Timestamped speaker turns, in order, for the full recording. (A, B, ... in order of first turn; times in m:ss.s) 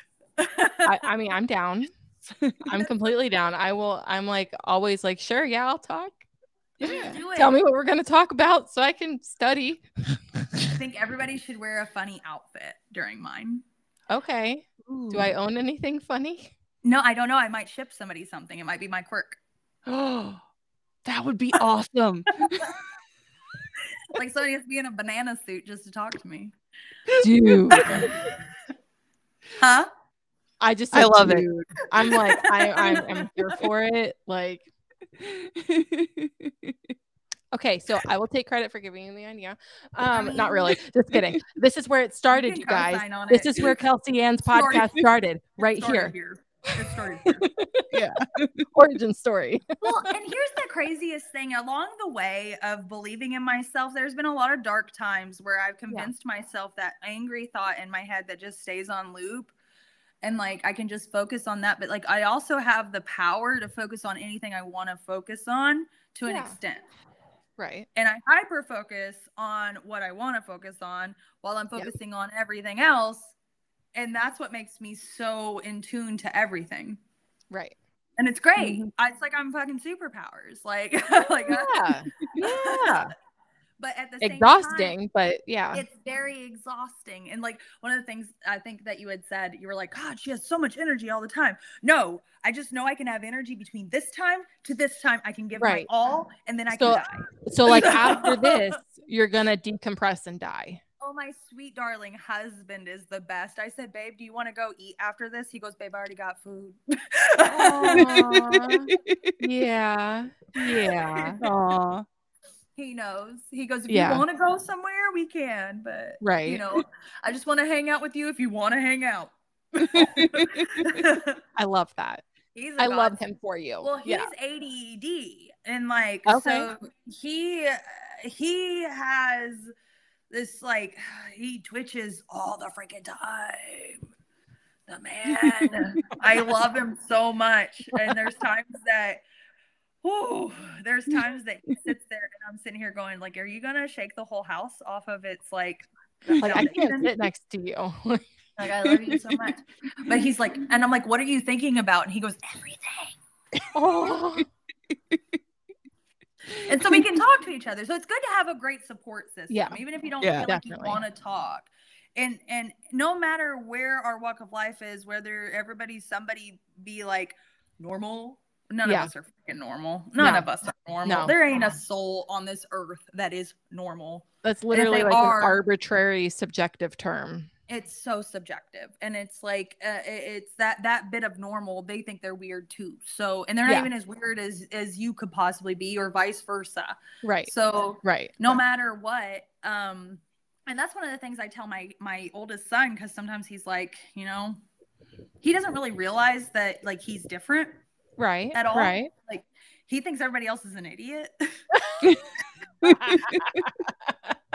0:00.4-0:01.0 A
0:00.8-0:01.9 B
0:02.6-0:06.2 B
0:06.8-0:07.2 C
0:06.8-0:07.5 A
0:06.9-0:10.6 B
0:10.7-0:13.6 A
0:14.1-0:16.5 B
0:14.8-0:15.3 C
0:16.8-0:19.4 A
0:19.8-0:20.4 C
0:21.0-0:22.8 C
0:24.1-0:26.5 A
0:27.1-0:28.2 C
0:27.2-0:28.1 B
0:27.7-0:28.4 A
0:29.6-0:29.9 A
0:30.6-0:34.6 B
0:30.9-0:31.5 C
0:32.0-0:33.2 A
0:35.2-0:36.7 C
0:37.5-0:46.1 B
0:40.1-0:40.7 A
0:42.3-0:43.8 A
0:44.5-0:45.0 A
0:45.6-0:47.4 A
0:47.3-0:47.9 B
0:47.9-0:48.7 C
0:48.7-0:50.1 B
0:49.8-0:59.5 A
1:00.2-1:06.8 A
1:06.2-1:06.5 B
1:07.6-1:07.9 B
1:07.9-1:13.3 A
1:13.9-1:17.0 A
1:17.5-1:17.8 B
1:18.2-1:23.1 A
1:18.6-1:18.9 B
1:21.4-1:23.1 B
1:23.8-1:25.0 A
1:24.2-1:25.8 B
1:25.7-1:38.7 A
1:35.6-1:35.9 B
1:36.7-1:40.8 B
1:41.0-1:48.3 A
1:47.5-1:51.4 B
1:47.9-1:49.3 C
1:51.4-1:52.0 C
1:52.8-2:01.4 A
1:53.9-1:54.2 B
1:56.2-1:56.6 B
1:59.8-2:00.8 C
2:01.6-2:02.2 B
2:02.5-2:03.1 A
2:02.8-2:04.3 B
2:03.8-2:09.7 A
2:06.3-2:06.7 B
2:10.3-2:14.0 A
2:14.9-2:19.2 A
2:20.0-2:27.1 A
2:26.4-2:28.2 B
2:28.6-2:33.2 A
2:33.7-2:34.5 B
2:36.6-2:55.6 A
2:39.5-2:39.8 B
2:40.4-2:41.0 B
2:48.8-2:49.1 B
2:50.2-2:50.4 B
2:51.0-2:51.3 B
2:54.4-2:57.5 B
2:57.7-3:14.6 A
3:07.2-3:07.5 B
3:08.0-3:08.3 B
3:15.4-3:17.8 A
3:18.2-3:19.1 B
3:18.5-3:22.0 A
3:22.8-3:23.6 C
3:23.0-3:24.3 B